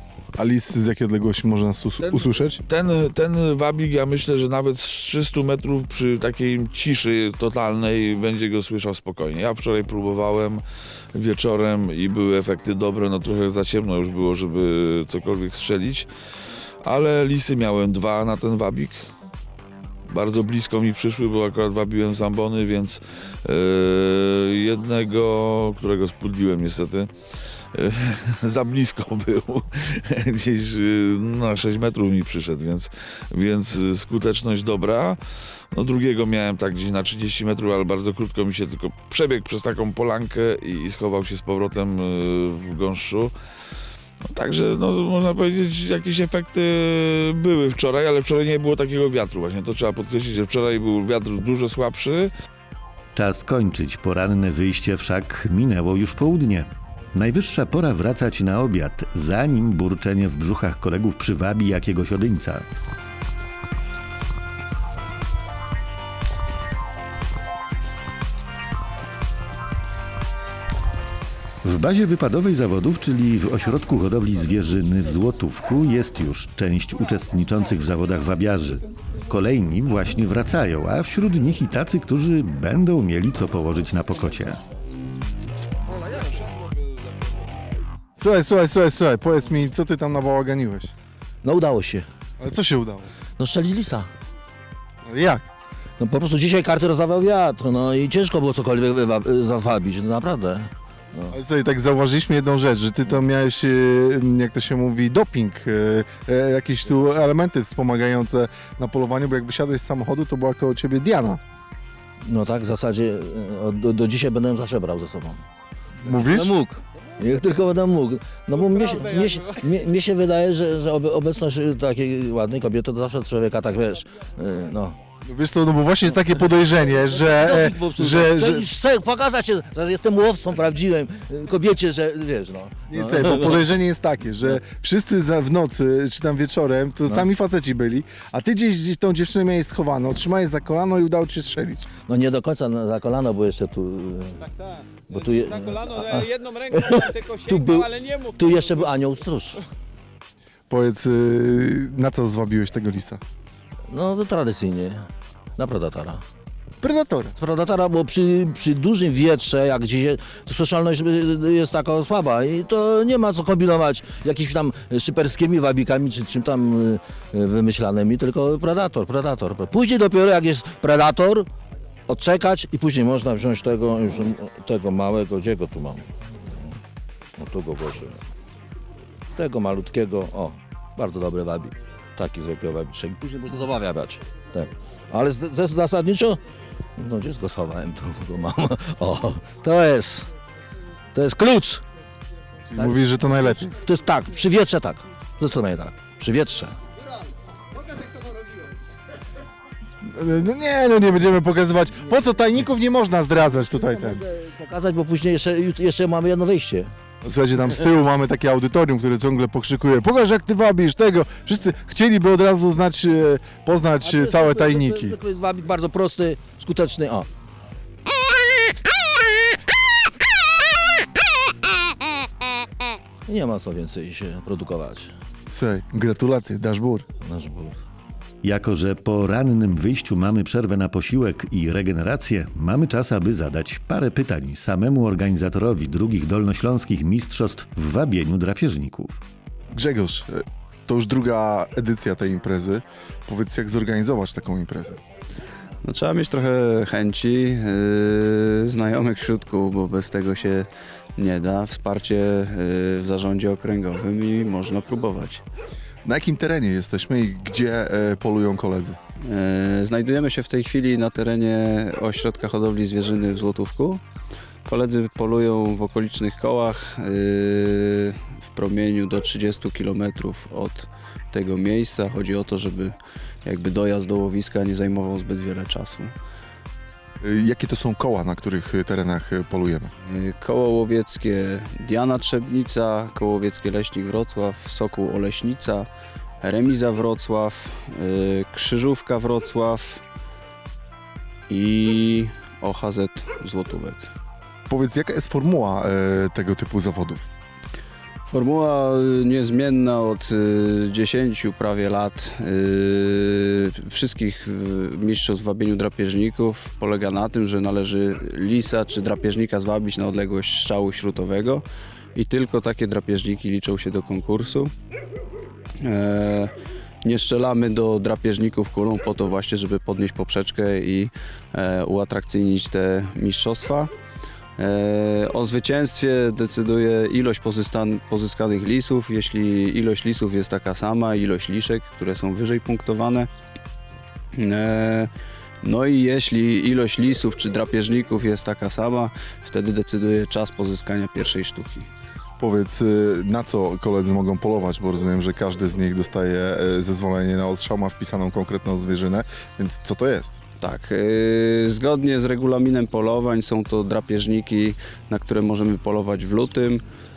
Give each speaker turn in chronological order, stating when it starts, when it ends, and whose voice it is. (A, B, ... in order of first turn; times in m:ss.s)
0:00.4-0:02.6 A
0:02.0-0:10.6 B
0:11.1-0:16.1 B
0:16.8-0:19.1 B
0:20.1-0:27.1 B
0:27.7-0:35.2 B
0:35.7-0:43.3 B
0:44.3-0:52.3 B
0:53.1-1:02.6 C
1:11.6-1:24.6 C
1:26.0-1:26.5 D
1:28.2-1:30.9 A
1:31.4-1:32.1 E
1:32.4-1:33.1 A
1:33.4-1:34.1 E
1:35.0-1:35.5 A
1:36.0-1:41.3 E
1:41.3-1:51.4 A
1:52.2-1:55.4 E
1:56.0-1:56.5 A
1:56.1-2:05.0 E
1:58.6-1:59.8 D
2:05.2-2:08.7 A
2:07.1-2:13.6 E
2:12.9-2:21.9 A
2:22.1-2:24.4 E
2:24.4-2:28.9 D
2:25.1-2:29.6 E
2:30.7-2:33.2 A
2:33.9-2:36.2 E
2:36.8-2:37.4 A
2:37.4-2:51.5 E
2:52.1-2:56.7 E
2:57.4-2:58.2 E
2:59.3-3:06.4 E
3:07.0-3:10.3 E
3:11.1-3:11.8 E
3:12.7-3:13.7 A
3:13.6-3:16.7 E
3:20.0-3:24.2 A
3:23.7-3:26.9 E
3:27.2-3:35.2 A
3:34.0-3:37.3 E
3:43.2-3:45.1 E
3:45.5-3:47.0 A
3:47.2-3:47.8 E
3:48.4-3:59.2 C
3:59.7-4:05.0 A
4:05.8-4:15.4 F
4:16.0-4:19.0 A
4:19.2-4:24.0 F
4:24.6-4:36.1 F
4:37.2-4:39.9 A
4:40.0-4:45.9 F
4:46.4-4:50.0 F
4:51.5-4:54.1 F
4:54.7-4:57.3 A
4:58.3-5:11.6 F
5:12.1-5:14.7 F
5:15.8-5:16.5 F
5:17.0-5:23.9 F
5:24.6-5:33.3 F
5:34.3-5:35.1 F
5:35.6-5:41.9 F
5:42.4-5:50.4 A
5:50.6-5:56.8 F